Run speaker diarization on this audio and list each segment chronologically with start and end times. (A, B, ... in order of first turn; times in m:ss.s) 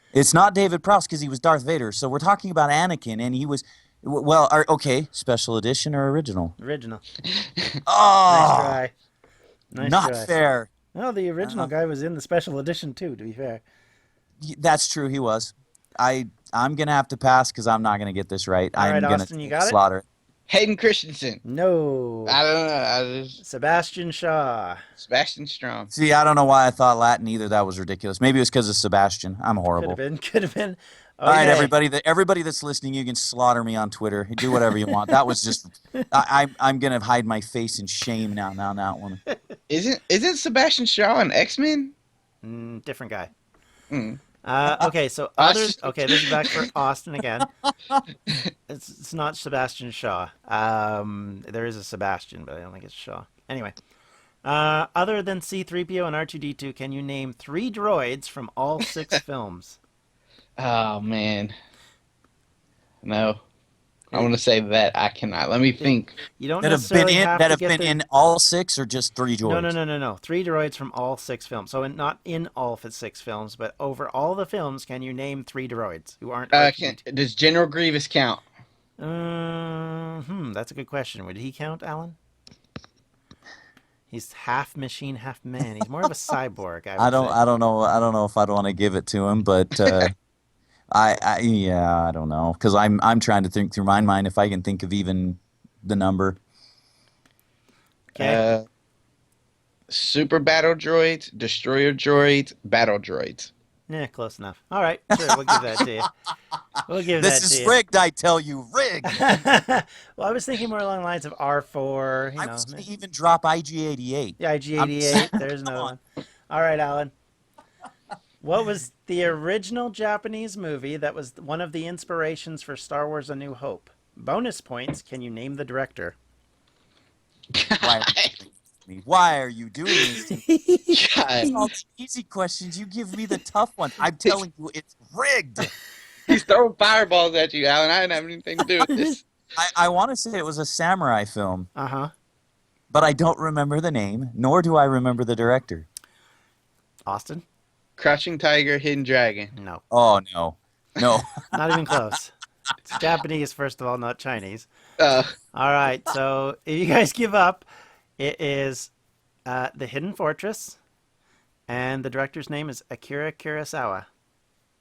0:00.1-0:06.6 A
0:06.6-0:07.0 B
0:07.9-0:08.8 A
0:08.3-0:08.9 B
0:09.7-0:10.4 B
0:09.8-0:10.7 A
0:10.9-0:13.6 B
0:11.4-0:11.7 A
0:14.4-0:20.0 A
0:18.8-0:19.8 B
0:20.5-0:21.4 C
0:21.4-0:22.4 B
0:22.3-0:23.4 C
0:23.4-0:24.8 B
0:25.0-0:25.9 C
0:25.9-0:30.0 A
0:29.7-0:31.7 B
0:31.2-0:39.2 A
0:34.9-0:35.2 B
0:39.7-0:41.9 C
0:42.4-0:43.3 B
0:43.9-0:44.2 C
0:44.4-0:47.5 B
0:45.4-0:46.6 C
0:48.7-0:53.8 B
0:54.4-0:59.8 B
1:00.6-1:01.5 C
1:03.0-1:03.4 C
1:04.1-1:04.4 B
1:04.1-1:06.2 C
1:05.8-1:08.0 B
1:06.6-1:09.8 A
1:09.4-1:17.0 B
1:16.5-1:18.4 C
1:19.0-1:22.2 B
1:24.1-1:27.4 B
1:27.0-1:30.1 A
1:30.9-1:36.4 A
1:38.2-1:38.4 B
1:38.2-1:38.6 C
1:39.9-1:43.5 C
1:43.9-1:46.1 B
1:45.2-1:45.8 A
1:46.9-1:47.8 B
1:47.2-1:49.3 A
1:49.0-1:52.9 B
1:52.4-1:55.9 A
1:54.4-1:56.0 B
1:56.5-1:57.1 B
1:58.4-2:06.2 B
2:07.5-2:08.4 C
2:07.8-2:10.4 A
2:10.1-2:11.7 B
2:10.9-2:11.5 C
2:11.5-2:15.7 A
2:16.3-2:19.2 C
2:18.8-2:19.1 B
2:19.6-2:21.7 A
2:21.8-2:22.1 B
2:22.9-2:25.9 A
2:27.1-2:27.4 B
2:28.0-2:29.5 C
2:29.6-2:29.8 B
2:29.9-2:32.0 A
2:31.5-2:32.3 B
2:32.9-2:34.7 B
2:35.0-2:35.4 C
2:35.5-2:37.7 B
2:38.2-2:38.9 B
2:39.5-2:40.8 B
2:41.7-2:44.0 B